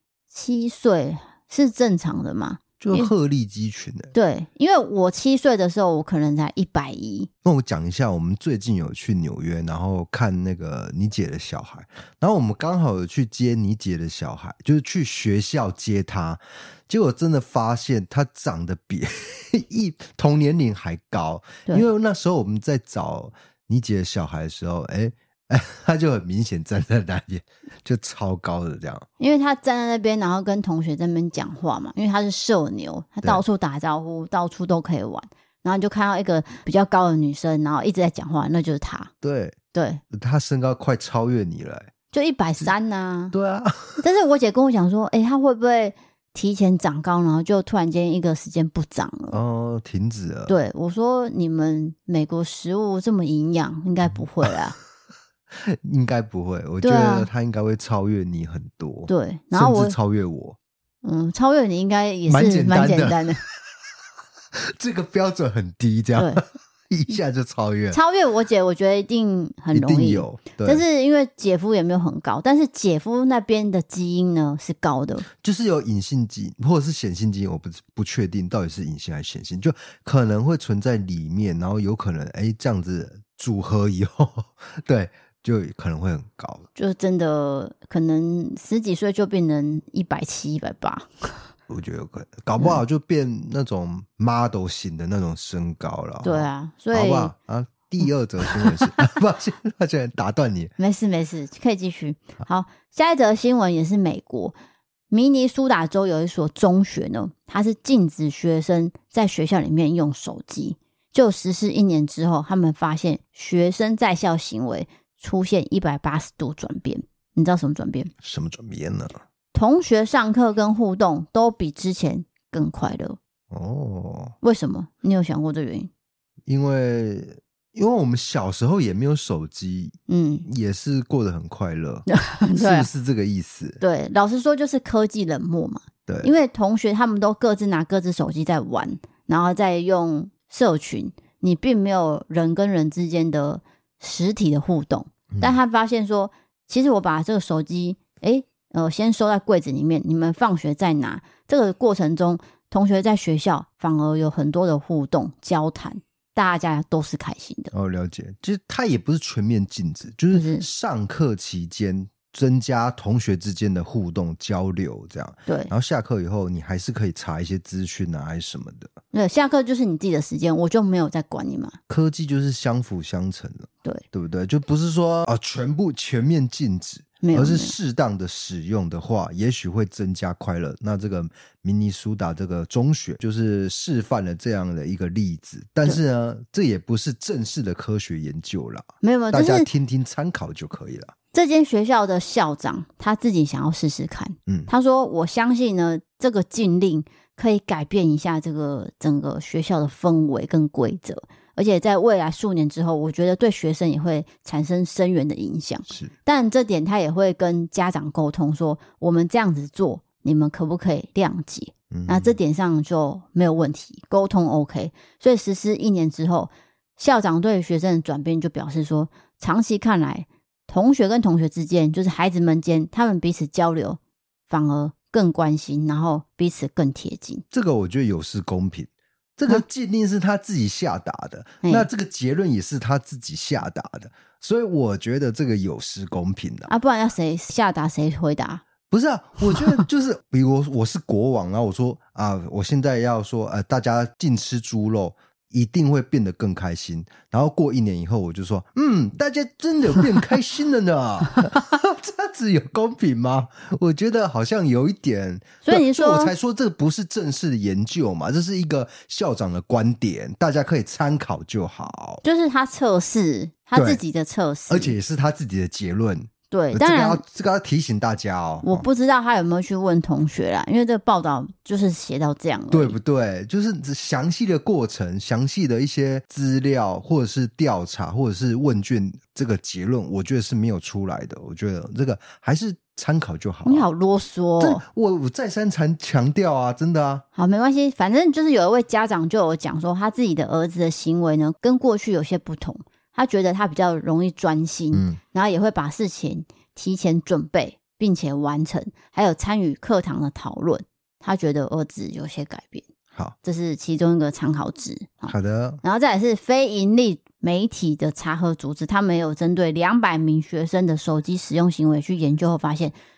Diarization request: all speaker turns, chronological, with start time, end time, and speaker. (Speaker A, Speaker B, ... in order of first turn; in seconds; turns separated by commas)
Speaker A: 0.3-3.1, Speaker B: 2.8-4.1, Speaker A: 4.1-7.3, Speaker B: 7.4-29.1, Speaker A: 29.2-39.1, Speaker B: 39.2-39.6, Speaker A: 39.7-40.0, Speaker B: 40.1-41.9, Speaker A: 42.1-43.3, Speaker B: 43.3-44.0, Speaker A: 44.0-49.4, Speaker B: 49.3-50.5, Speaker A: 50.5-54.8, Speaker B: 55.5-60.6, Speaker A: 56.8-57.3, Speaker A: 59.1-60.0, Speaker A: 61.0-63.4, Speaker B: 62.3-63.5, Speaker B: 64.5-68.0, Speaker A: 66.2-66.4, Speaker A: 67.9-75.2, Speaker B: 69.7-70.8, Speaker B: 75.3-86.7, Speaker A: 86.8-91.1, Speaker B: 91.7-100.7, Speaker A: 96.2-97.3, Speaker A: 100.8-104.5, Speaker A: 105.1-118.1, Speaker B: 118.2-119.2, Speaker A: 119.5-123.2, Speaker B: 123.5-124.3, Speaker A: 124.4-125.9, Speaker B: 126.5-133.8, Speaker A: 130.1-130.5, Speaker A: 132.1-132.9, Speaker A: 133.8-157.7, Speaker B: 145.3-145.6, Speaker B: 157.7-168.9, Speaker A: 160.3-160.7, Speaker A: 169.1-171.8, Speaker B: 171.9-191.1, Speaker A: 177.2-177.7, Speaker A: 189.0-189.7, Speaker A: 191.3-227.4, Speaker B: 205.9-206.1, Speaker B: 211.9-212.3, Speaker B: 227.5-236.7, Speaker A: 231.6-231.9, Speaker A: 236.7-238.6, Speaker B: 238.9-262.2, Speaker A: 255.7-256.3, Speaker A: 262.2-265.0, Speaker B: 263.7-264.0, Speaker B: 264.7-268.8, Speaker A: 266.5-267.2, Speaker A: 268.6-272.9, Speaker B: 272.7-283.9, Speaker A: 283.6-284.8, Speaker B: 284.6-287.2, Speaker A: 287.4-302.8, Speaker B: 294.9-295.2, Speaker A: 303.4-312.9, Speaker B: 305.3-305.8